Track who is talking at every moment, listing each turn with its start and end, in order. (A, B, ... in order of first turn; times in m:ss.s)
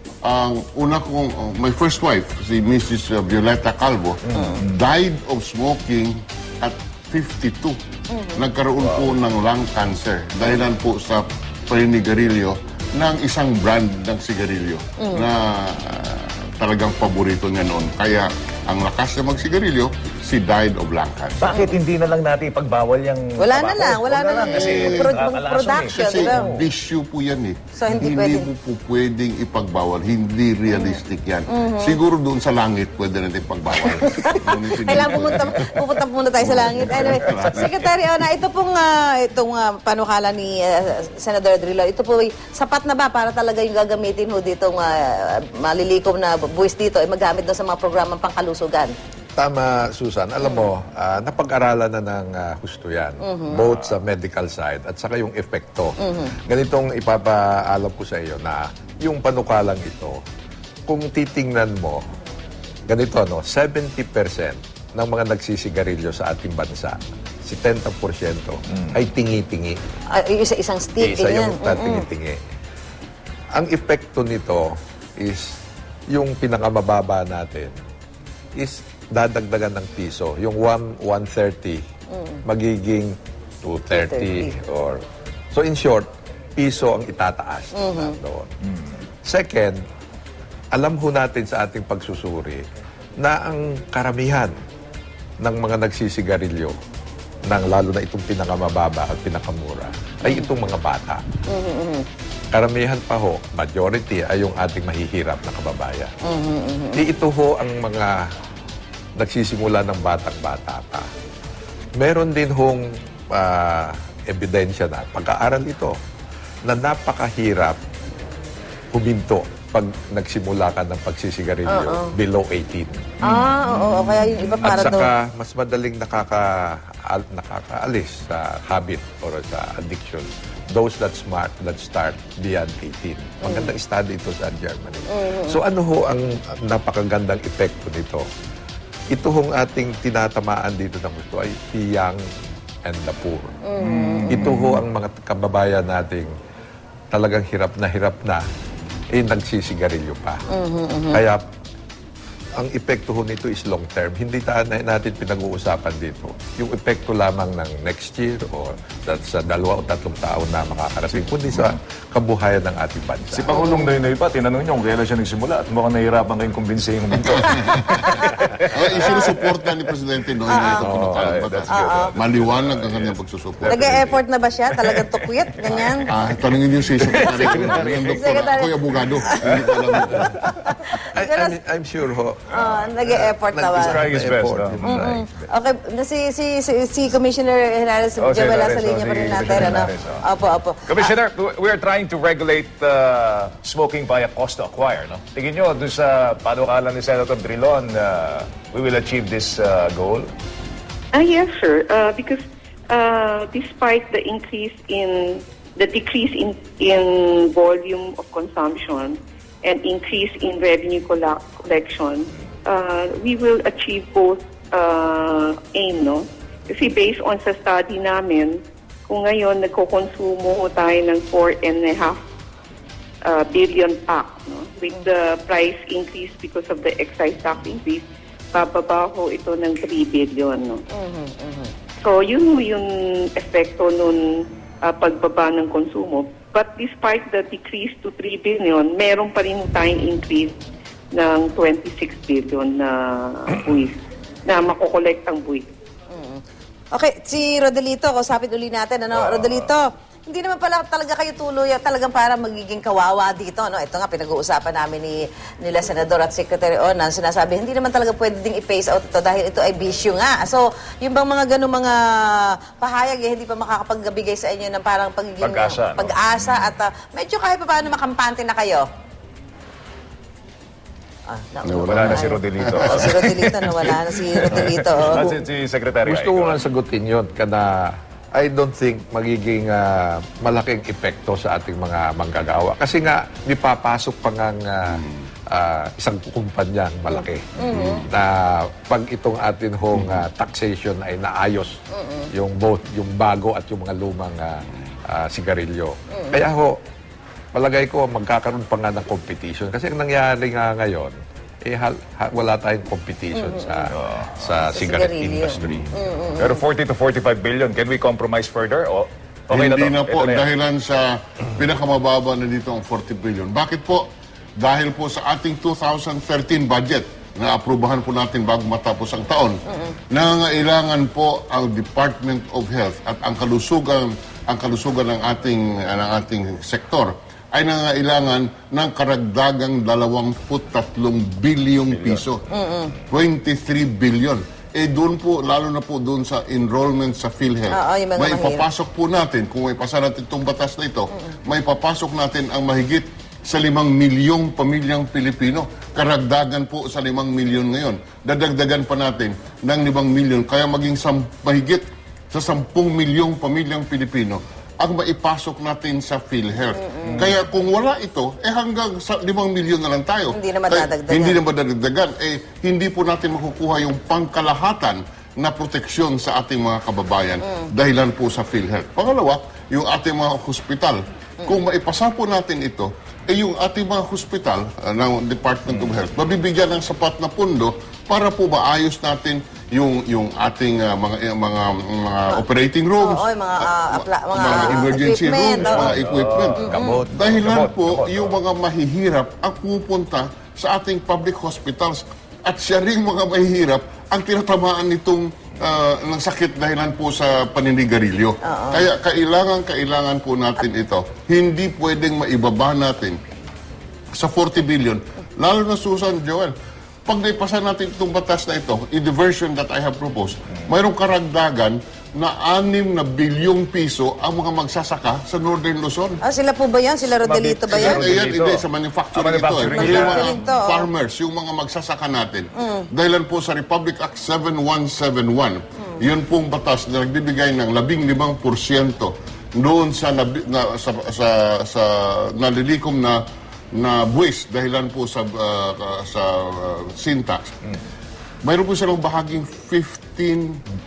0:00.2-0:07.8 A
0:04.2-0:04.8 B
0:04.3-0:04.6 C
0:08.1-0:08.4 C
0:08.3-0:21.4 A
0:08.8-0:09.1 B
0:15.0-0:15.2 C
0:21.4-0:26.7 B
0:23.4-0:26.5 C
0:24.4-0:25.2 A
0:25.9-0:37.9 A
0:27.8-0:28.5 C
0:30.7-0:32.0 C
0:34.0-0:48.9 C
0:49.4-0:56.0 D
0:50.4-0:50.7 C
0:53.2-0:53.6 C
0:56.0-0:56.3 C
0:56.5-1:00.2 D
1:00.9-1:02.0 D
1:02.9-1:09.8 D
1:08.7-1:09.0 B
1:10.1-1:12.0 C
1:11.0-1:12.4 D
1:13.5-1:15.6 D
1:16.1-1:17.7 D
1:18.6-1:21.8 D
1:22.1-1:22.4 C
1:22.4-1:28.5 D
1:23.9-1:24.5 C
1:27.7-1:28.1 C
1:29.2-1:29.8 D
1:30.7-1:32.6 D
1:33.2-1:34.5 D
1:35.4-1:36.7 D
1:37.5-1:41.2 D
1:41.5-1:42.0 C
1:42.5-1:46.1 D
1:46.2-1:47.0 C
1:46.9-1:48.2 D
1:49.2-1:51.0 D
1:52.0-1:52.8 D
1:53.3-1:56.0 D
1:56.6-1:57.8 D
1:58.9-2:03.1 D
2:01.6-2:02.1 C
2:03.2-2:05.1 C
2:03.3-2:04.6 B
2:04.6-2:18.2 D
2:13.4-2:13.7 C
2:15.1-2:15.6 C
2:19.1-2:22.2 D
2:22.8-2:23.6 D
2:23.7-2:24.5 C
2:23.8-2:24.8 B
2:24.3-2:26.3 D
2:27.1-2:28.4 D
2:29.1-2:30.4 D
2:30.5-2:31.2 C
2:31.1-2:31.4 D
2:32.6-2:43.5 D
2:43.3-2:49.4 B
2:43.5-2:43.9 C
2:48.0-2:48.5 C
2:48.7-2:54.0 A
2:49.0-2:49.3 C
2:50.5-2:50.8 C
2:50.7-2:51.4 D
2:50.9-2:54.0 B
2:51.7-2:52.1 C
2:53.6-2:56.1 C
2:54.7-2:58.2 B
2:56.1-3:00.4 A
2:57.3-3:01.6 C
2:59.4-3:00.5 B
3:01.0-3:05.2 D
3:02.5-3:04.1 C
3:03.8-3:05.4 B
3:04.8-3:11.1 C
3:08.2-3:10.2 B
3:10.8-3:20.3 B
3:21.1-3:42.2 E
3:43.2-3:50.8 E
3:50.9-3:51.7 C
3:52.0-4:00.6 E
4:01.1-4:05.7 E
4:06.1-4:06.4 C
4:06.9-4:28.8 C
4:09.1-4:09.7 B
4:25.4-4:26.7 B
4:31.3-4:35.4 C
4:31.6-4:33.1 A
4:31.9-4:36.6 B
4:36.0-4:47.5 D
4:47.6-4:48.0 C
4:47.7-4:48.1 A
4:48.1-4:51.8 D
4:49.9-4:50.2 A
4:51.9-4:52.3 C
4:52.3-4:56.8 D
4:57.5-5:05.9 D
5:03.3-5:03.9 C
5:03.9-5:04.3 B
5:04.7-5:06.6 C
5:06.4-5:10.5 B
5:09.5-5:19.6 A
5:19.7-5:20.0 C
5:20.1-5:32.4 A
5:31.9-5:32.3 B
5:32.5-5:32.9 C
5:33.1-6:43.2 A
5:37.7-5:38.6 C
5:56.8-5:57.3 C
6:00.3-6:01.4 C
6:23.0-6:26.0 C
6:25.6-6:28.4 B
6:26.6-6:27.0 C
6:26.7-6:27.3 D
6:38.4-6:38.8 C
6:44.1-6:46.5 A
6:47.1-6:56.2 A
6:56.2-6:58.1 C
6:57.2-7:00.4 B
6:57.7-7:13.2 A
6:59.6-7:00.9 C
7:02.6-7:02.9 C
7:13.7-7:17.6 A
7:18.4-7:20.6 A